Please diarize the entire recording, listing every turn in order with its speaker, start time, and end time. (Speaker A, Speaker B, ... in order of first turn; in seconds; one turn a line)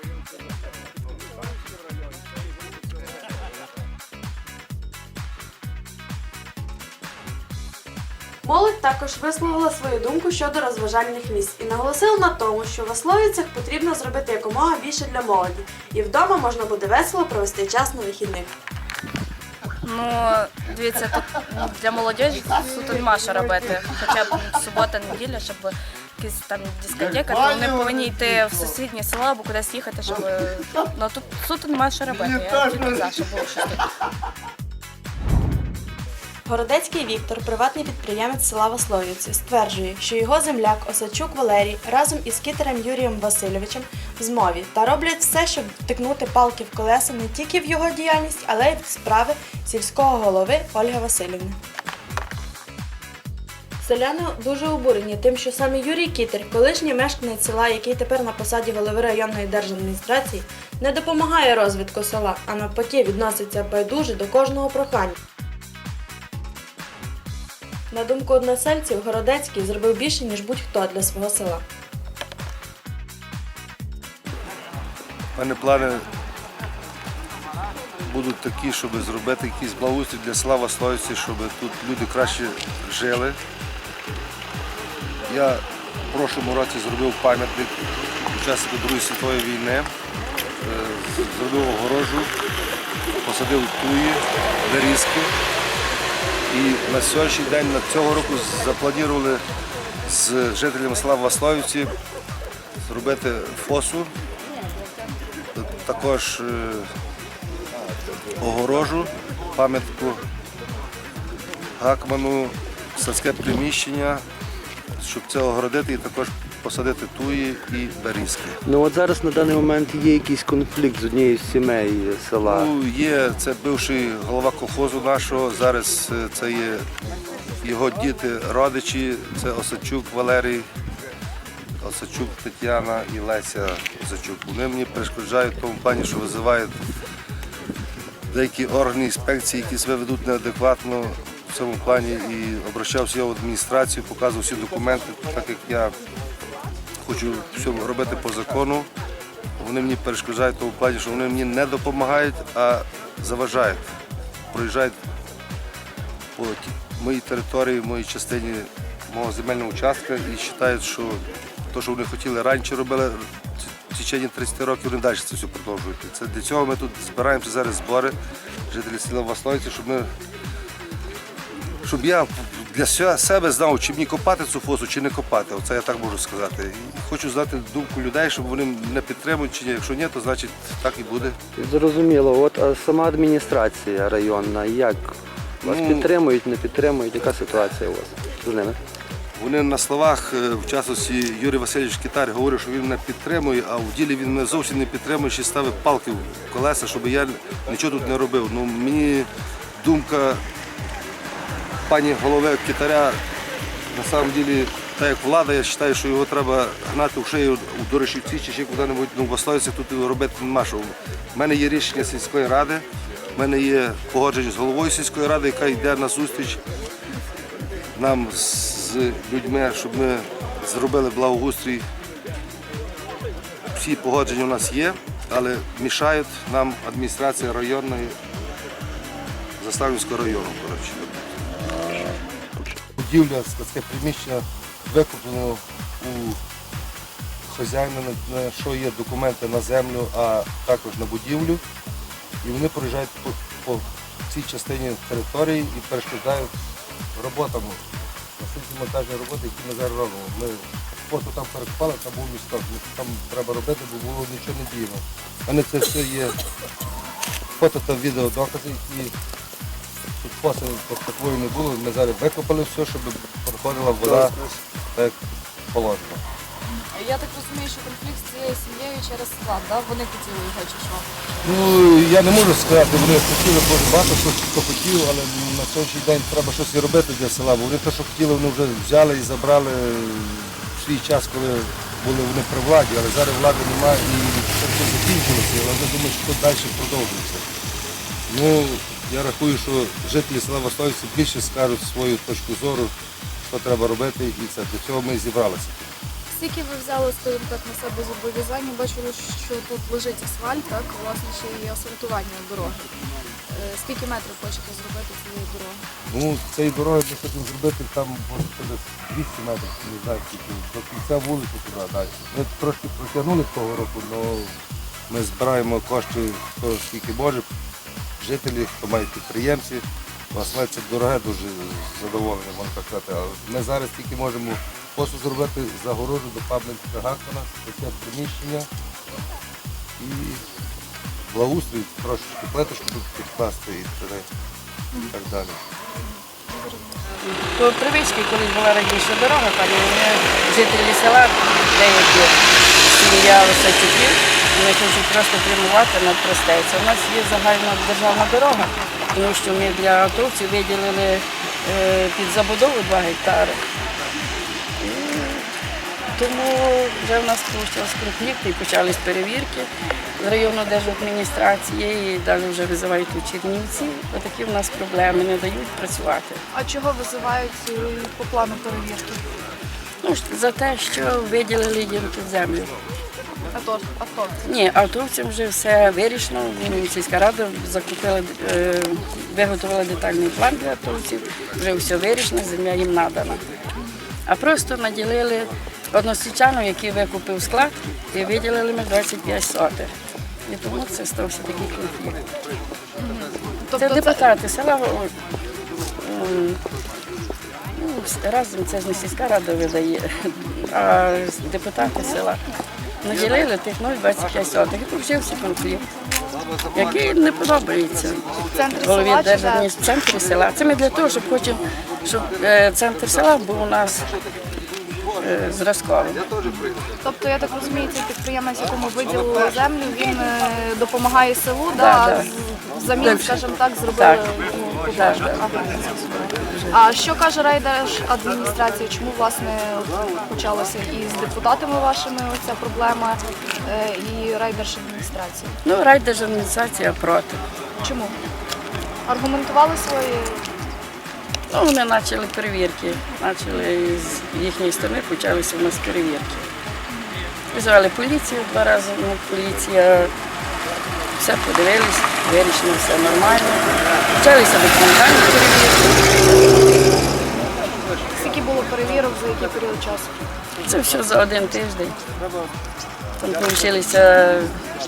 Speaker A: 8.4-18.5
Speaker B: 19.8-33.9
Speaker A: 36.5-51.6
Speaker A: 53.8-65.2
Speaker A: 67.9-71.6
Speaker C: 75.3-76.0
Speaker C: 78.0-83.4
Speaker C: 85.3-87.8
Speaker C: 88.3-89.9
Speaker C: 90.6-92.3
Speaker C: 93.2-95.3
Speaker C: 96.5-99.4
Speaker C: 100.1-101.9
Speaker C: 102.8-104.1
Speaker C: 105.5-106.9
Speaker C: 108.4-110.2
Speaker C: 111.8-114.2
Speaker C: 115.0-118.6
Speaker D: 118.7-122.7
Speaker C: 122.4-126.9
Speaker C: 127.6-130.7
Speaker C: 131.8-136.8
Speaker C: 138.3-145.9
Speaker C: 147.0-148.9
Speaker C: 149.6-153.9
Speaker C: 154.5-154.9
Speaker C: 156.4-168.2
Speaker C: 168.7-170.1
Speaker C: 171.8-181.4
Speaker D: 181.6-188.8
Speaker C: 185.6-186.1
Speaker C: 189.4-200.4
Speaker C: 201.9-203.2
Speaker C: 203.9-216.6
Speaker C: 217.9-221.9
Speaker C: 223.7-228.2
Speaker C: 229.6-231.3
Speaker C: 232.9-236.4
Speaker C: 237.5-241.6
Speaker C: 242.4-246.5
Speaker C: 247.2-247.8
Speaker C: 248.4-256.4
Speaker C: 257.6-259.1
Speaker C: 260.2-264.4
Speaker C: 265.7-266.2
Speaker E: 266.9-271.1
Speaker C: 271.4-287.5
Speaker C: 288.3-292.9
Speaker C: 293.5-295.8
Speaker E: 296.3-302.9
Speaker E: 303.5-305.8
Speaker C: 306.1-314.6
Speaker C: 315.1-317.5
Speaker C: 318.2-328.7
Speaker C: 330.0-330.4
Speaker C: 331.3-334.3
Speaker C: 335.1-335.6
Speaker E: 336.1-337.0
Speaker F: 337.2-353.6
Speaker F: 354.8-355.5
Speaker F: 356.1-366.4
Speaker E: 366.5-369.2
Speaker F: 370.0-372.7
Speaker E: 373.5-374.4
Speaker F: 374.4-383.4
Speaker F: 384.3-389.9
Speaker F: 390.5-392.2
Speaker E: 393.0-394.2
Speaker F: 393.8-395.1
Speaker F: 396.0-396.6
Speaker F: 397.8-402.4
Speaker F: 403.0-405.9
Speaker F: 406.7-414.1
Speaker E: 408.5-409.8
Speaker F: 415.1-416.2
Speaker E: 416.4-435.6
Speaker F: 421.7-422.3
Speaker F: 423.0-423.4
Speaker F: 423.9-424.2
Speaker F: 424.9-426.8
Speaker F: 435.6-437.4
Speaker E: 437.8-438.2
Speaker E: 439.1-440.5
Speaker F: 441.5-446.4
Speaker E: 446.9-447.1
Speaker F: 447.5-450.1
Speaker F: 451.2-456.5
Speaker E: 458.2-460.2
Speaker F: 460.6-462.0
Speaker F: 463.2-464.6